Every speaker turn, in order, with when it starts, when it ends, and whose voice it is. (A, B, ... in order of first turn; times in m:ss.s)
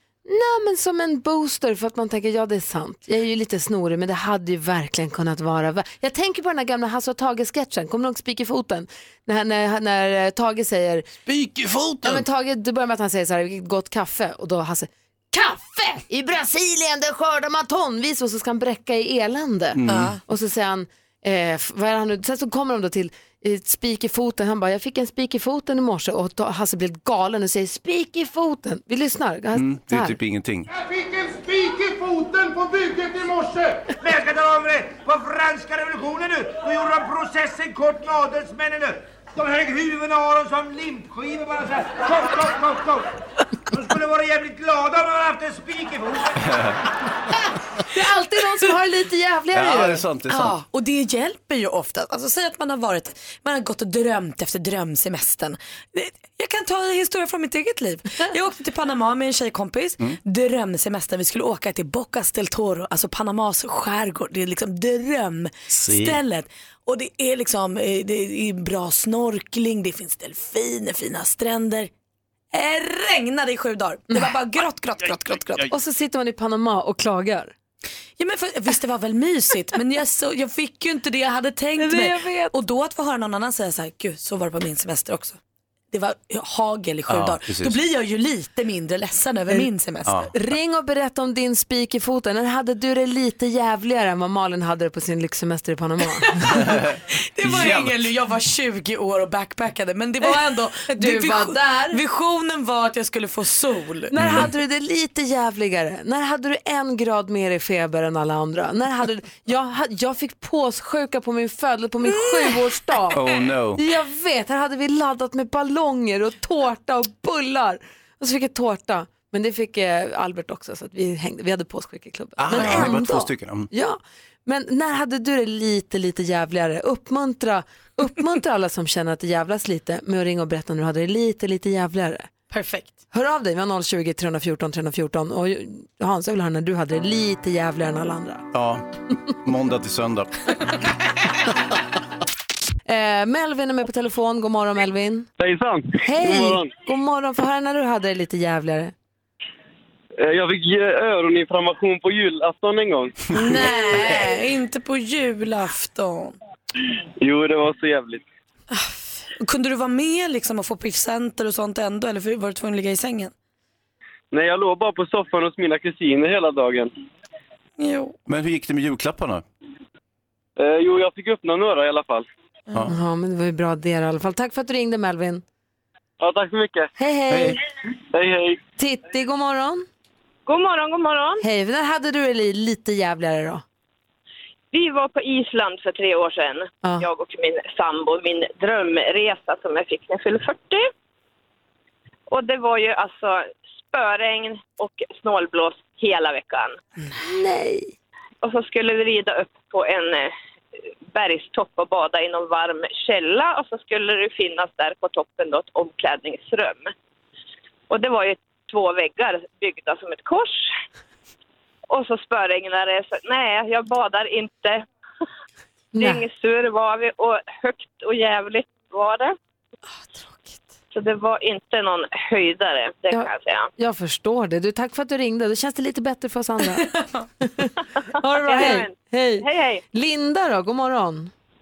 0:00.3-0:11.1 A
0:11.3-0:12.2 B
0:12.0-0:30.2 A
0:19.8-0:20.2 B
0:19.9-0:20.2 C
0:29.6-0:30.7 B
0:30.7-0:43.1 D
0:43.7-0:46.4 D
0:46.4-0:46.8 B
0:47.9-0:50.0 A
0:49.5-0:50.6 B
0:50.3-1:11.9 C
1:05.8-1:06.2 B
1:12.5-1:15.7 C
1:15.7-1:17.5 A
1:18.2-1:25.4 C
1:21.8-1:22.5 A
1:25.9-1:30.3 C
1:27.1-1:27.8 B
1:30.1-1:30.3 B
1:30.3-1:36.6 A
1:36.4-1:36.6 C
1:36.6-1:38.0 B
1:37.4-1:44.1 C
1:41.0-1:42.0 A
1:44.1-1:53.2 A
1:44.2-1:44.5 B
1:52.1-1:52.6 C
1:53.1-1:53.8 B
1:53.8-2:12.3 A
2:02.4-2:03.7 B
2:02.6-2:02.9 C
2:12.5-2:12.9 C
2:13.1-2:18.5 A
2:18.5-2:18.8 B
2:19.4-2:20.3 B
2:22.9-2:25.3 A
2:25.4-2:26.7 E
2:26.0-2:28.9 A
2:30.2-2:33.2 E
2:33.3-2:36.4 C
2:37.2-2:38.2 E
2:38.7-2:43.3 C
2:44.3-2:46.9 E
2:47.8-2:48.2 C
2:48.3-2:49.4 B
2:50.6-2:52.3 E
2:52.9-2:55.4 A
2:56.2-2:56.9 E
2:57.0-2:57.6 A
2:57.3-2:57.6 B
2:58.1-2:58.6 E
2:58.8-2:59.9 A
3:00.5-3:01.4 F
3:01.4-3:03.6 A
3:04.7-3:10.8 F
3:12.3-3:16.8 F
3:17.2-3:17.9 A
3:18.4-3:20.3 F
3:21.1-3:26.9 F
3:27.9-3:30.7 F
3:31.9-3:34.8 F
3:36.0-3:36.2 A
3:36.0-3:39.4 F
3:40.2-3:40.6 A
3:40.9-3:43.7 F
3:43.1-3:46.9 A
3:47.4-3:51.3 A
3:48.4-3:49.8 F